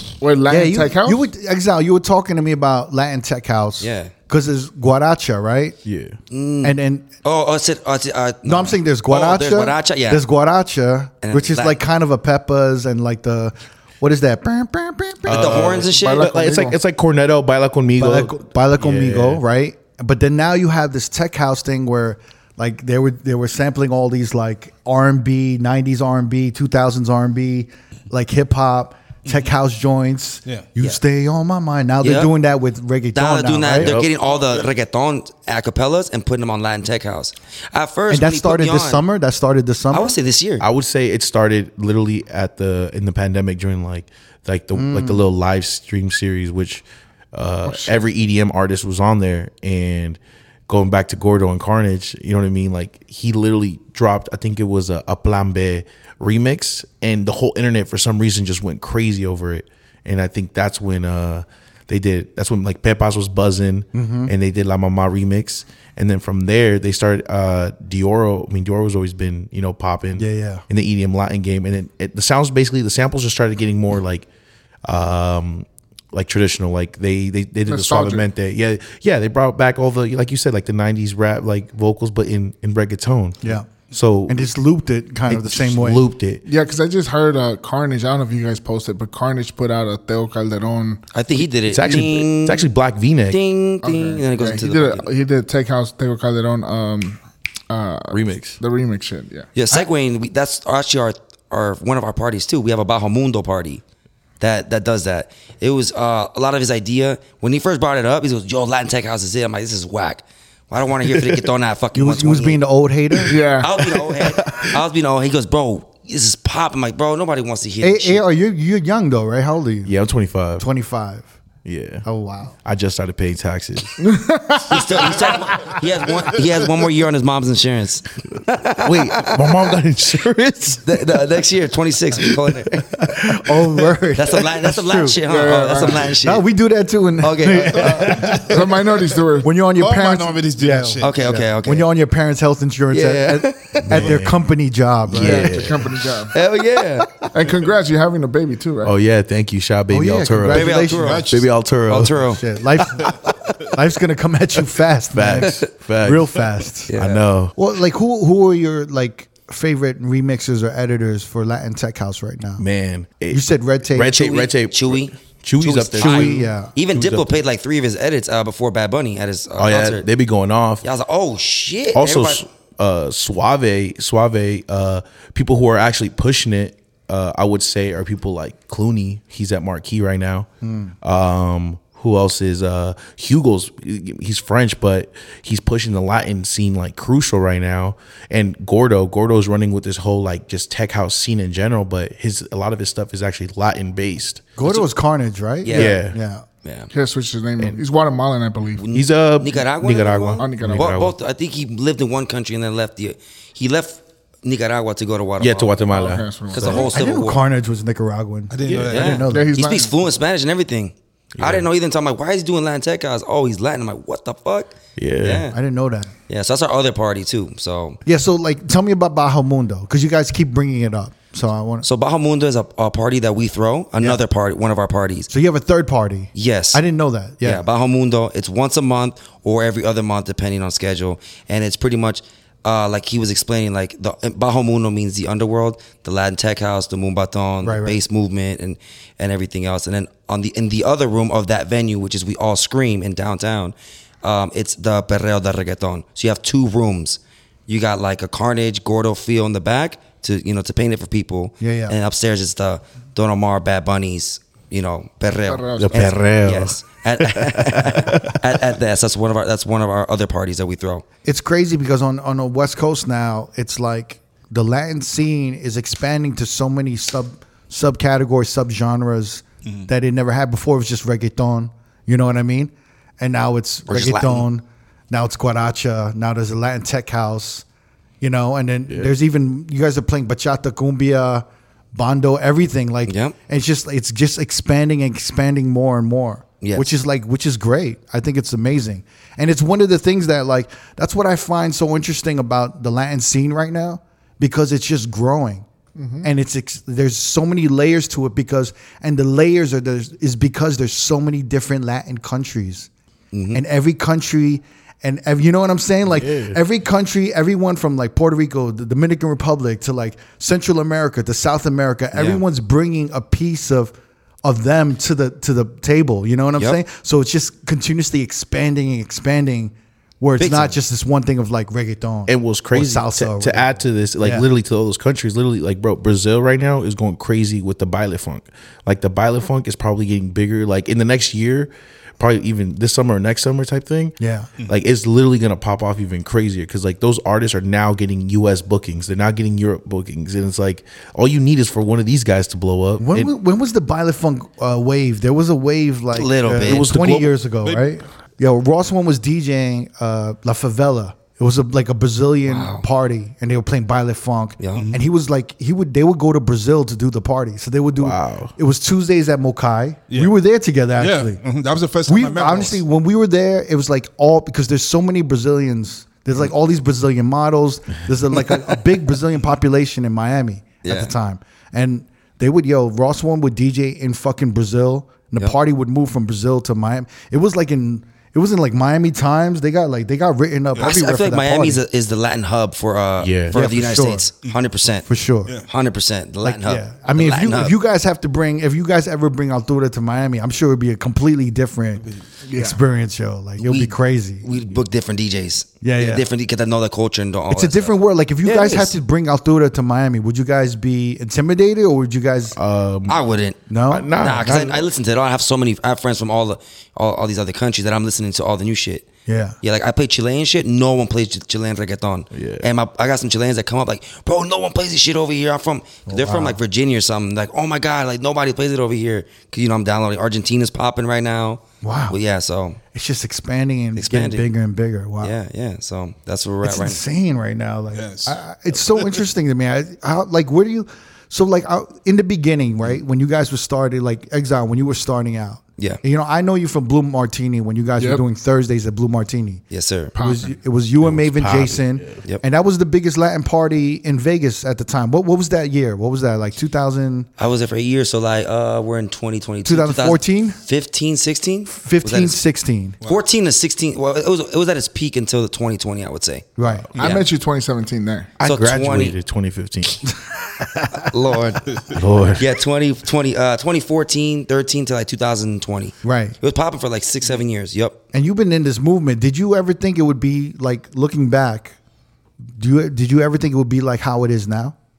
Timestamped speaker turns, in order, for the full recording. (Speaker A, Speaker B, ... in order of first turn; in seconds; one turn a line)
Speaker A: 0.2-1.3
Speaker B: 0.5-5.8
Speaker C: 3.8-4.1
Speaker D: 5.8-6.2
Speaker C: 6.3-10.2
Speaker B: 6.6-7.1
Speaker B: 8.4-15.6
Speaker C: 11.2-11.8
Speaker D: 15.3-19.4
Speaker C: 15.3-16.3
Speaker A: 15.9-16.8
Speaker B: 18.0-33.9
Speaker C: 32.0-32.3
Speaker C: 33.1-39.0
Speaker D: 33.8-34.1
Speaker B: 38.1-40.1
Speaker C: 39.9-40.7
Speaker D: 40.6-74.3
Speaker B: 44.7-45.2
Speaker A: 47.7-48.0
Speaker B: 63.9-64.3
Speaker B: 70.2-70.6
Speaker D: 74.8-84.4
Speaker A: 77.7-78.3
Speaker B: 84.3-86.0
Speaker D: 85.3-86.4
Speaker A: 86.5-91.0
Speaker C: 91.1-92.7
Speaker D: 91.7-93.4
Speaker C: 93.3-95.1
Speaker A: 93.8-99.5
Speaker D: 98.1-98.6
Speaker C: 99.5-103.8
Speaker C: 104.4-112.6
Speaker D: 111.0-111.5
Speaker B: 112.0-113.4
Speaker A: 113.3-113.7
Speaker C: 113.6-118.2
Speaker D: 113.8-114.8
Speaker B: 117.8-119.9
Speaker D: 119.8-120.7
Speaker B: 120.6-121.3
Speaker D: 121.7-122.0
Speaker B: 122.0-122.5
Speaker D: 122.6-124.0
Speaker A: 124.0-124.8
Speaker C: 124.7-129.6
Speaker D: 128.8-131.0
Speaker C: 130.8-132.9
Speaker B: 133.0-135.2
Speaker C: 134.2-136.4
Speaker A: 135.3-136.2
Speaker B: 136.1-138.8
Speaker C: 137.2-138.3
Speaker A: 137.9-139.5
Speaker B: 139.4-145.5
Speaker E: 139.8-141.2
Speaker C: 141.0-141.9
Speaker C: 142.9-144.1
Speaker D: 143.8-144.4
Speaker D: 145.1-146.0
Speaker A: 145.2-146.3
Speaker C: 146.3-147.3
Speaker A: 147.3-148.9
Speaker D: 148.8-152.2
Speaker B: 149.9-151.2
Speaker C: 150.5-152.4
Speaker E: 150.9-151.5
Speaker B: 152.3-153.1
Speaker B: 153.7-156.9
Speaker D: 155.1-156.4
Speaker C: 155.4-155.7
Speaker C: 156.9-157.2
Speaker D: 156.9-157.6
Speaker B: 157.6-162.7
Speaker D: 162.6-167.4
Speaker B: 163.3-164.2
Speaker C: 164.1-170.1
Speaker B: 166.0-166.7
Speaker D: 169.6-170.8
Speaker C: 170.8-172.4
Speaker D: 171.9-180.5
Speaker B: 180.6-180.9
Speaker D: 181.0-194.4
Speaker B: 194.6-196.4
Speaker C: 195.6-196.0
Speaker D: 195.7-196.2
Speaker C: 196.6-196.9
Speaker A: 196.9-198.8
Speaker C: 198.8-205.8
Speaker D: 198.9-201.2
Speaker A: 200.4-201.0
Speaker D: 205.4-206.9
Speaker A: 205.9-206.9
Speaker C: 206.5-207.4
Speaker B: 206.8-209.6
Speaker E: 208.5-209.3
Speaker C: 208.9-215.6
Speaker A: 209.3-209.9
Speaker D: 211.4-211.7
Speaker D: 215.0-215.5
Speaker B: 215.5-216.1
Speaker C: 216.3-218.0
Speaker B: 218.1-221.9
Speaker C: 221.8-225.3
Speaker B: 225.3-227.6
Speaker C: 226.3-226.8
Speaker C: 227.4-261.1
Speaker B: 237.6-238.0
Speaker B: 251.6-251.9
Speaker A: 255.5-256.2
Speaker D: 255.8-258.6
Speaker B: 261.2-277.6
Speaker C: 273.9-274.5
Speaker B: 278.2-295.6
Speaker C: 283.1-283.4
Speaker C: 286.6-286.9
Speaker A: 296.0-296.3
Speaker B: 296.2-302.9
Speaker C: 303.3-303.6
Speaker B: 303.5-324.5
Speaker D: 306.1-306.6
Speaker C: 312.1-312.4
Speaker C: 320.4-320.8
Speaker D: 322.3-343.3
Speaker B: 334.2-334.5
Speaker B: 343.0-361.4
Speaker C: 346.1-346.9
Speaker D: 346.6-347.4
Speaker C: 352.5-352.9
Speaker C: 354.6-354.9
Speaker E: 354.7-355.0
Speaker D: 358.0-358.5
Speaker E: 361.0-362.8
Speaker B: 362.1-381.8
Speaker C: 370.8-371.1
Speaker C: 380.8-385.1
Speaker D: 383.2-383.6
Speaker B: 383.5-384.3
Speaker B: 385.1-385.5
Speaker C: 385.7-387.8
Speaker B: 386.4-394.4
Speaker A: 392.4-392.8
Speaker C: 393.6-398.9
Speaker B: 395.8-396.2
Speaker B: 397.5-402.6
Speaker D: 402.5-403.2
Speaker C: 403.1-403.6
Speaker B: 403.7-404.7
Speaker D: 403.9-404.8
Speaker C: 404.2-409.1
Speaker B: 409.3-409.6
Speaker C: 409.6-422.8
Speaker D: 412.3-412.7
Speaker B: 416.1-416.6
Speaker B: 421.8-422.2
Speaker B: 422.9-425.3
Speaker C: 424.0-424.5
Speaker C: 425.2-427.0
Speaker B: 426.6-439.6
Speaker E: 427.9-428.4
Speaker C: 439.7-440.1
Speaker A: 440.1-440.5
Speaker B: 440.2-447.3
Speaker D: 441.0-442.2
Speaker C: 447.4-452.4
Speaker B: 449.6-450.6
Speaker B: 451.7-453.0
Speaker C: 453.0-457.2
Speaker B: 456.6-456.9
Speaker A: 457.0-458.3
Speaker D: 458.4-460.0
Speaker C: 458.4-459.2
Speaker B: 460.6-461.1
Speaker C: 461.1-461.6
Speaker D: 461.9-462.4
Speaker C: 462.4-468.0
Speaker B: 466.0-466.4
Speaker B: 468.1-471.8
Speaker B: 472.6-474.8